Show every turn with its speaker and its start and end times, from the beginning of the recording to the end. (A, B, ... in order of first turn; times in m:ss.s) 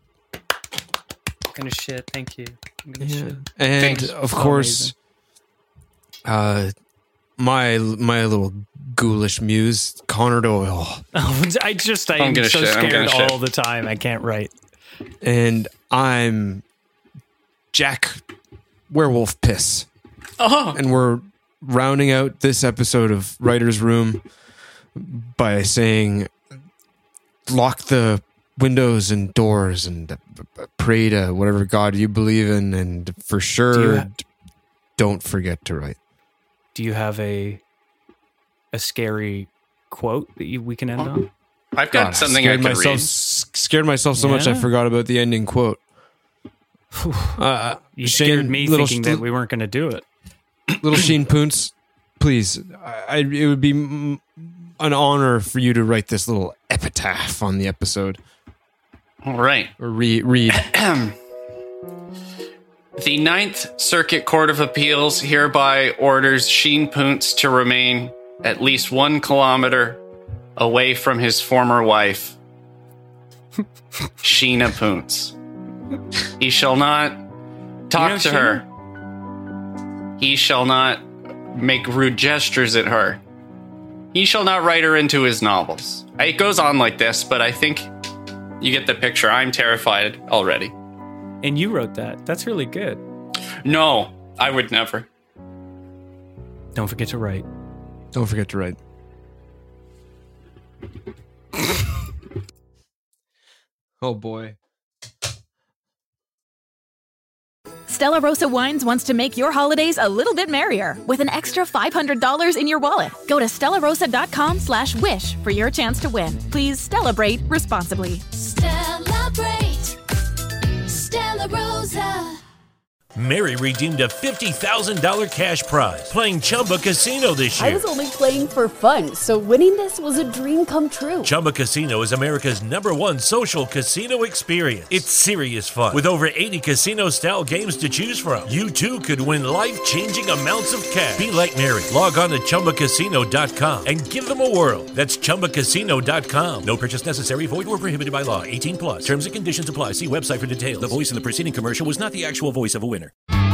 0:01.5-0:03.4 A
0:03.0-0:04.9 B
0:03.8-0:04.1 C
0:04.2-0:04.9 A
0:06.2-0:06.7 B
0:07.4-0:11.0 B
0:11.1-0:14.5 A
0:12.2-0:13.4 C
0:15.2-0:16.6 B
0:17.7-0:18.2 B
0:18.9-0:19.9 B
0:20.4-0:20.8 C
0:20.7-0:24.2 B
0:24.9-0:26.3 B
0:27.4-0:34.2 B
0:33.7-0:34.1 A
0:35.0-0:36.0 B
0:36.7-0:37.6 A
0:38.7-0:41.3 A
0:41.7-0:43.1 C
0:41.9-0:45.8 B
0:44.2-0:44.7 A
0:47.0-0:47.4 A
0:47.4-0:49.2 B
0:48.0-0:50.0 A
0:50.8-0:58.2 B
0:59.2-0:59.7 C
0:59.8-1:00.7 B
1:00.5-1:01.2 C
1:03.0-1:10.0 C
1:10.6-1:12.4 C
1:14.2-1:15.3 C
1:16.4-1:17.2 C
1:17.9-1:18.6 C
1:17.9-1:18.6 A
1:20.2-1:23.2 C
1:24.1-1:27.9 C
1:28.6-1:30.7 C
1:31.4-1:33.0 A
1:33.6-1:35.1 C
1:36.7-1:37.4 A
1:38.1-1:38.8 B
1:44.0-1:44.6 B
1:47.9-1:58.4 D
1:58.4-1:59.9 E
2:00.9-2:02.4 E
2:03.2-2:07.8 F
2:07.5-2:11.3 E
2:11.2-2:33.1 F